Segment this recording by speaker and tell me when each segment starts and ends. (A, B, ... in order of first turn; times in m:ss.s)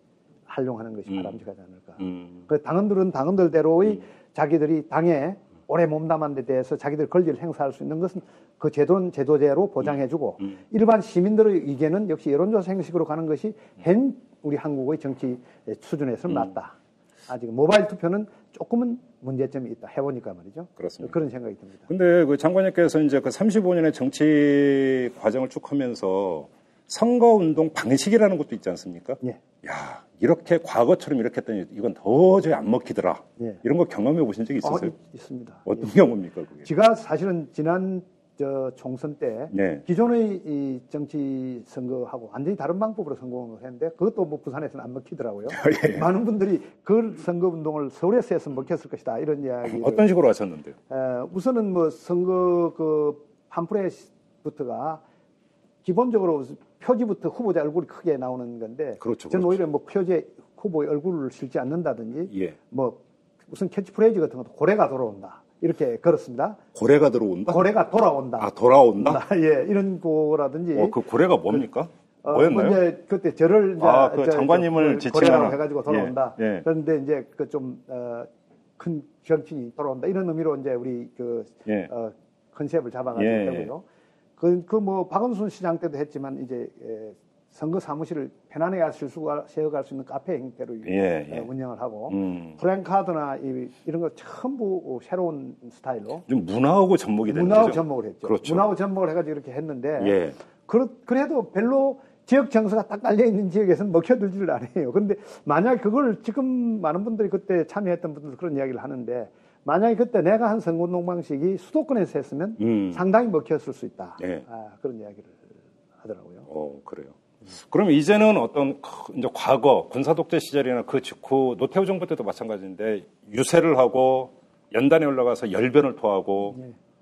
0:00.5-0:16.8 A
0:02.0-0:02.4 B
0:17.3-0:21.9 A
0:20.8-0:21.2 B
0:21.9-0:34.9 B
0:34.6-0:35.9 A
0:35.6-0:36.7 B
0:36.6-0:50.1 A
0:39.5-0:39.8 B
0:45.5-0:46.1 B
0:49.6-0:50.8 B
0:50.9-0:55.0 A
0:55.8-1:06.6 A
0:59.0-0:59.6 B
1:06.8-1:07.6 B
1:07.5-1:11.0 A
1:08.4-1:09.2 B
1:10.7-1:12.8 B
1:12.2-1:23.8 A
1:13.8-1:16.6 B
1:23.2-1:23.7 B
1:24.4-1:36.2 A
1:30.8-1:31.5 B
1:32.1-1:32.6 B
1:36.3-1:38.7 B
1:37.3-1:56.5 A
1:40.0-1:40.4 B
1:52.6-1:53.0 B
1:54.2-1:54.4 B
1:56.5-2:06.6 B